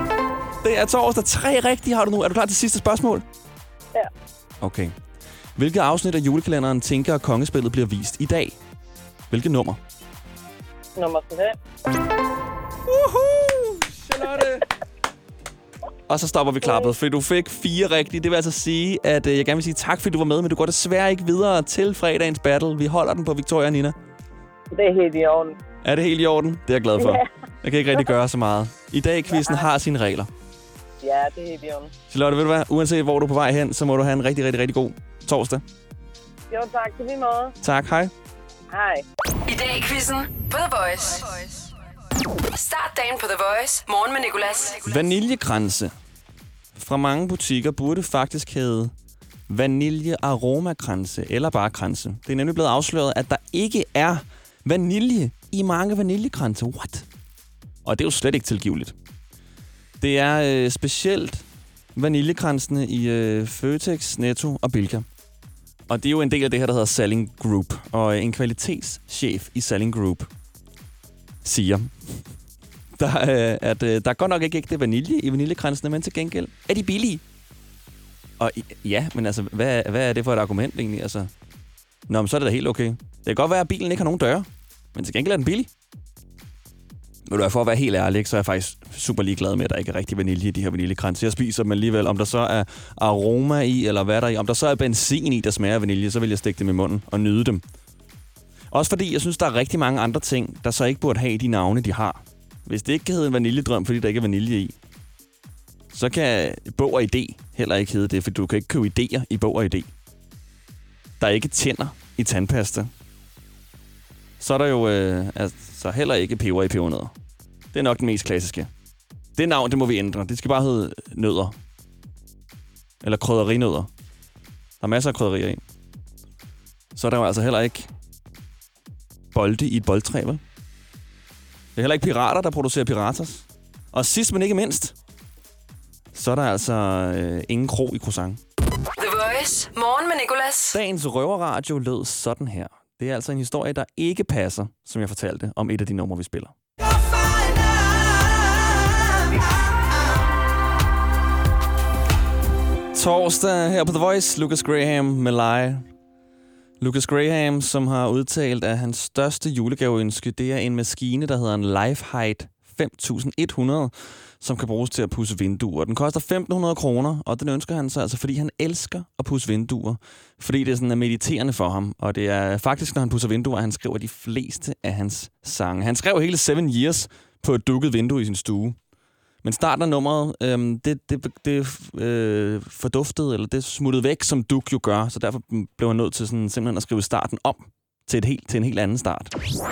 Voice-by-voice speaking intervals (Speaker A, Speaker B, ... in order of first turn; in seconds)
Speaker A: 0.6-3.2, 4.6-4.9, 5.6-8.6, 9.3-9.8, 12.9-14.7, 16.1-24.0, 25.9-30.3, 32.1-35.6, 37.6-38.1, 44.9-45.9, 46.8-48.9, 49.5-57.1, 57.9-59.0, 60.0-65.1, 65.9-70.3, 71.4-72.3, 73.0-77.2, 78.4-81.3, 82.1-85.7, 87.3-97.6, 98.7-104.8, 105.9-109.9, 111.2-112.9, 114.4-117.1, 117.7-118.7, 119.4-121.6, 123.0-123.9, 124.8-125.6, 127.0-127.9, 129.3-130.4, 131.8-134.9, 136.1-138.4, 140.7-146.6, 152.9-155.9, 156.8-178.8, 179.4-189.3
Speaker B: 11.0-11.6, 24.7-25.6, 27.0-27.3, 31.0-31.9, 36.5-37.5, 38.7-39.0
Speaker C: 39.5-41.6, 42.5-45.0, 139.0-140.8